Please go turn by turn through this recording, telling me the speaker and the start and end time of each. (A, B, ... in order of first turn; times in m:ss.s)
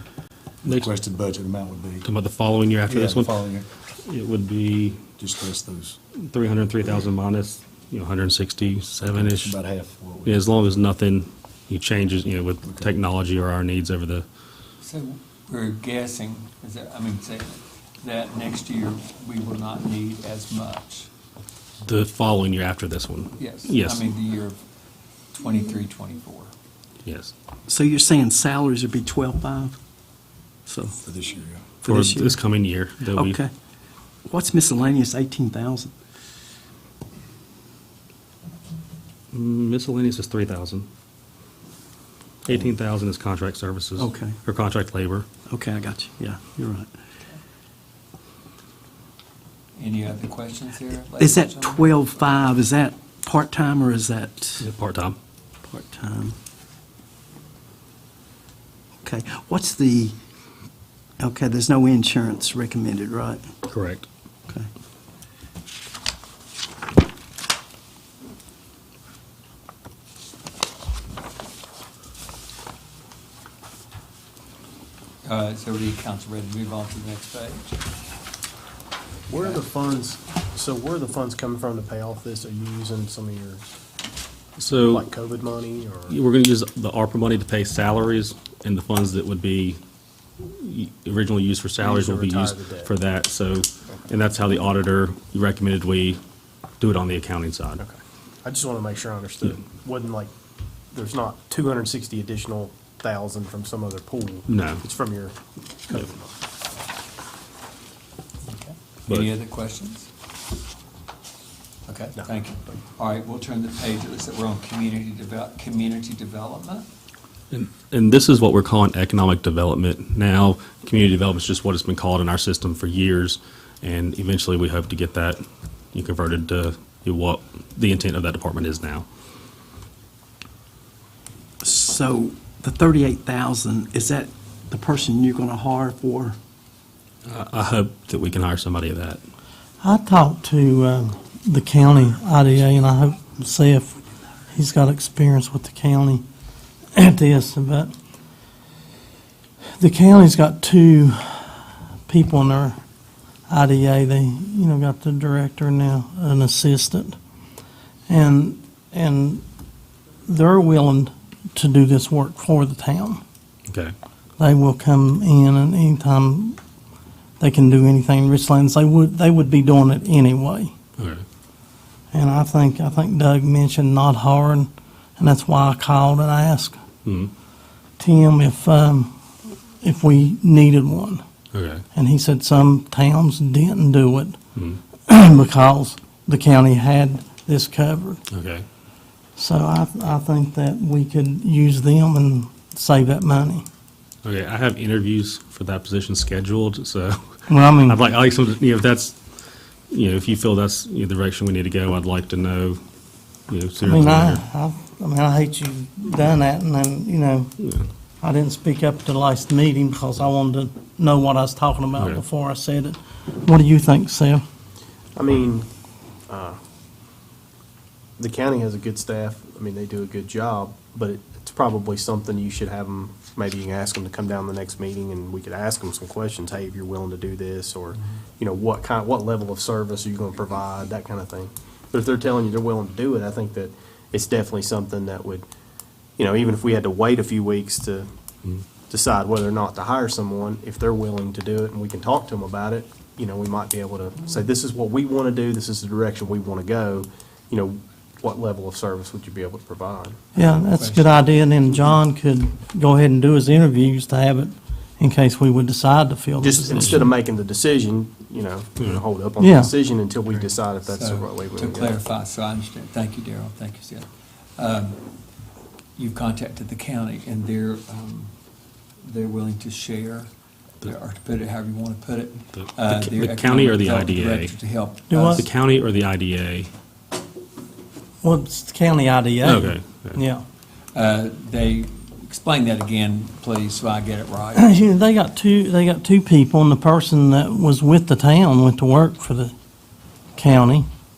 0:00.6-0:02.1 A
0:00.7-0:00.9 B
0:02.0-0:03.4 B
0:02.9-0:03.7 A
0:04.1-0:05.0 B
0:05.2-0:06.0 A
0:06.2-0:09.6 B
0:09.1-0:10.5 A
0:10.2-0:14.3 B
0:12.7-0:12.9 A
0:14.8-0:21.1 C
0:21.8-0:24.1 B
0:23.4-0:24.6 C
0:25.3-0:26.5 C
0:27.0-0:27.3 B
0:27.7-0:29.8 D
0:30.7-0:31.0 D
0:31.0-0:31.7 A
0:31.8-0:32.4 D
0:31.9-0:33.4 B
0:33.1-0:33.5 D
0:34.3-0:35.9 D
0:39.3-0:40.9 B
0:42.4-0:45.3 B
0:44.0-0:44.4 D
0:45.5-0:46.9 D
0:49.8-0:51.9 C
0:51.2-0:54.7 D
0:54.6-0:55.2 B
0:55.6-0:56.4 D
0:59.0-1:00.2 D
1:01.2-1:03.5 D
1:03.7-1:04.1 B
1:15.2-1:17.8 C
1:19.3-1:23.6 E
1:24.6-1:25.1 B
1:24.9-1:26.2 E
1:26.1-1:29.8 B
1:30.4-1:36.2 B
1:31.8-1:32.9 E
1:36.8-1:37.8 B
1:37.8-1:40.3 E
1:40.9-1:45.4 E
1:44.5-1:44.8 B
1:45.9-1:46.3 E
1:48.5-1:50.1 C
1:51.9-1:56.9 C
1:52.2-1:52.8 E
1:57.5-2:09.0 B
2:11.6-2:16.4 D
2:17.3-2:19.2 B
2:19.8-2:24.0 F
2:24.5-2:26.2 F
2:26.9-2:27.9 F
2:29.8-2:32.8 F
2:33.5-2:37.2 F
2:38.1-2:39.4 F
2:40.3-2:43.2 F
2:43.7-2:43.9 B
2:44.4-2:46.6 F
2:47.4-2:50.7 F
2:51.0-2:51.2 B
2:52.1-2:56.8 F
2:57.0-2:57.3 B
2:58.0-2:59.1 F
2:59.8-3:01.2 F
3:01.5-3:01.8 B
3:01.9-3:04.4 F
3:04.6-3:04.8 B
3:05.1-3:08.2 F
3:08.3-3:08.7 B
3:09.4-3:13.6 F
3:14.2-3:19.2 B
3:17.5-3:18.0 F
3:19.9-3:22.8 B
3:23.5-3:24.4 B
3:23.8-3:27.5 F
3:27.6-3:27.9 B
3:28.2-3:34.4 F
3:32.0-3:32.2 B
3:35.2-3:35.7 E
3:36.3-3:36.6 E
3:38.2-3:55.5 E
3:56.2-3:58.1 E
3:58.9-4:10.3 E
4:10.4-4:11.9 C
4:10.4-4:17.1 F
4:16.4-4:22.0 E
4:16.8-4:17.0 B
4:19.4-4:19.7 F
4:20.8-4:25.0 C
4:26.0-4:28.3 C
4:29.0-4:30.3 C
4:30.8-4:35.4 C
4:32.6-4:34.6 B
4:35.1-4:35.4 F
4:35.3-4:36.7 B
4:38.2-4:40.4 F
4:39.4-4:40.2 B
4:40.9-4:44.8 C
4:44.6-4:49.5 F
4:50.4-4:50.9 F